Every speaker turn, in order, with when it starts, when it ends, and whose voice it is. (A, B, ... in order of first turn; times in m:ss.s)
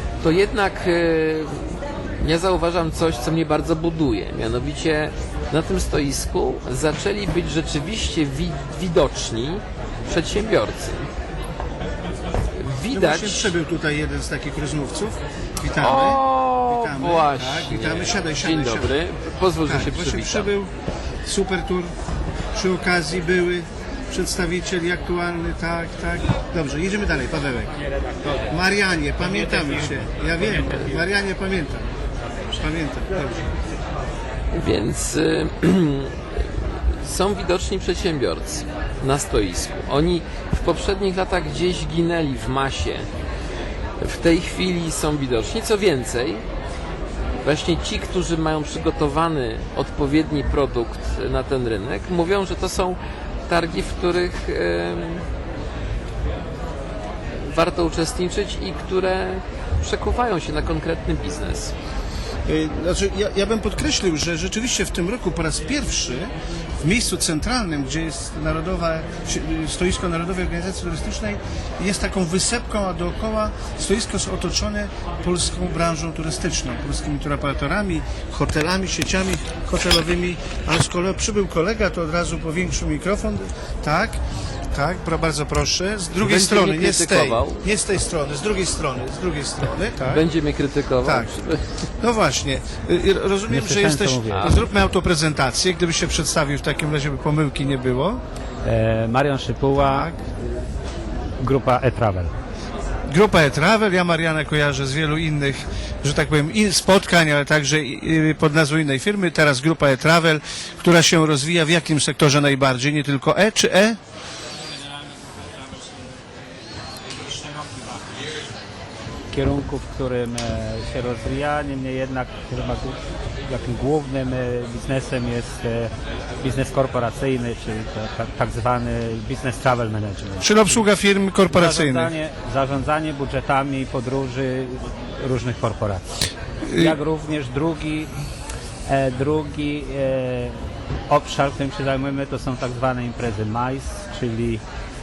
0:00.2-0:11.1 A
0:12.6-0:13.5 A
0:12.9-0:19.0 B
0:15.8-0:20.5 A
0:19.6-0:20.7 B
0:21.3-0:21.9 B
0:22.6-0:27.8 B
0:28.4-0:31.9 B
0:32.5-0:33.5 B
0:34.5-0:43.1 A
0:44.0-0:46.4 A
0:47.4-0:55.3 A
0:57.4-1:01.7 A
1:02.5-1:24.2 B
1:24.7-1:30.3 B
1:26.2-1:27.6 A
1:30.1-1:31.7 A
1:31.0-1:31.3 B
1:32.0-1:38.2 B
1:33.5-1:34.6 C
1:34.3-1:34.6 A
1:38.6-1:40.1 C
1:39.8-1:40.2 B
1:41.4-1:42.3 C
1:43.1-1:54.0 B
1:54.7-1:56.2 C
1:57.2-1:58.2 C
1:59.3-2:10.8 C
2:10.4-2:12.1 B
2:11.5-2:16.1 C
2:16.7-2:17.0 B
2:16.7-2:18.1 C
2:18.9-2:24.6 C